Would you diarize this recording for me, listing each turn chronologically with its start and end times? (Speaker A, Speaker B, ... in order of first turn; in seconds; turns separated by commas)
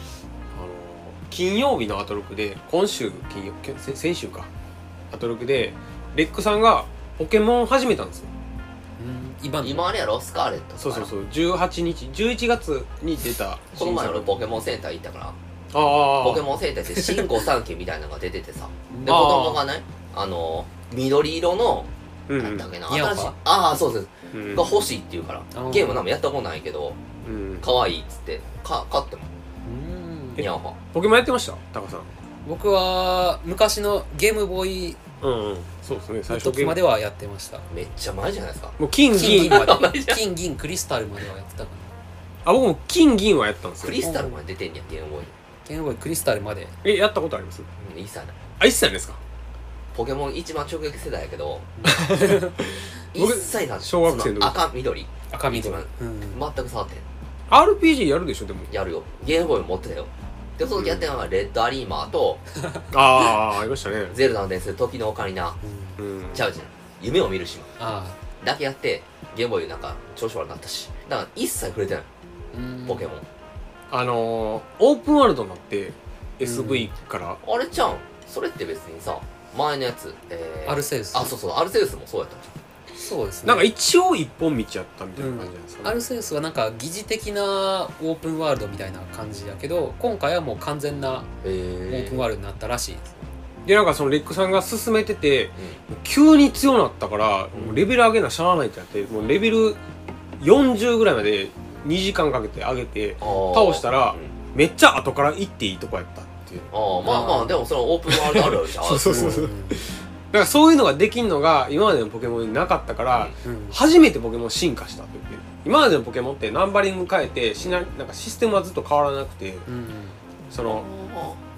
Speaker A: 0.5-4.5, Speaker A: 5.1-8.3, Speaker B: 9.0-9.9, Speaker C: 9.6-11.1, Speaker A: 10.8-14.4, Speaker C: 13.7-15.4, Speaker A: 15.7-17.3, Speaker C: 16.1-27.0, Speaker B: 18.9-19.6, Speaker A: 19.1-19.6, Speaker A: 22.3-22.7, Speaker B: 22.9-23.4, Speaker A: 24.3-24.7, Speaker B: 25.5-26.1, Speaker A: 27.2-27.7, Speaker C: 27.6-29.3, Speaker B: 29.6-30.4, Speaker C: 30.4-30.8, Speaker A: 30.9-32.1, Speaker B: 32.5-35.0, Speaker A: 35.2-36.8, Speaker B: 36.3-37.6, Speaker C: 37.7-40.2, Speaker A: 38.8-39.7, Speaker B: 39.1-41.9, Speaker A: 42.5-44.0, Speaker C: 43.8-45.3, Speaker B: 44.0-44.4, Speaker B: 45.6-46.8, Speaker A: 46.8-47.7, Speaker C: 47.8-48.4, Speaker A: 48.6-49.2, Speaker C: 49.9-51.7, Speaker B: 51.8-52.6, Speaker A: 51.9-54.6, Speaker C: 53.1-57.1, Speaker B: 55.3-56.4, Speaker A: 57.5-58.7, Speaker C: 58.7-62.4, Speaker A: 60.8-61.1, Speaker A: 62.9-64.2, Speaker C: 64.1-65.6, Speaker B: 65.6-66.0, Speaker A: 66.0-66.5, Speaker C: 66.3-67.7, Speaker B: 67.8-68.2, Speaker C: 68.4-72.1, Speaker B: 72.5-73.1, Speaker C: 72.9-73.2, Speaker A: 73.9-77.4, Speaker B: 76.4-76.9, Speaker C: 77.4-82.5, Speaker B: 80.7-81.3, Speaker B: 83.0-83.7, Speaker A: 83.4-86.0, Speaker B: 85.2-91.3, Speaker C: 91.4-92.3, Speaker B: 91.9-93.2, Speaker A: 93.7-99.8, Speaker A: 100.4-106.7, Speaker C: 103.2-104.3, Speaker C: 106.7-109.4, Speaker B: 107.0-107.6, Speaker A: 108.1-119.7, Speaker B: 109.0-109.9, Speaker B: 113.4-113.8, Speaker B: 119.7-120.2, Speaker C: 120.5-121.4, Speaker A: 120.5-120.9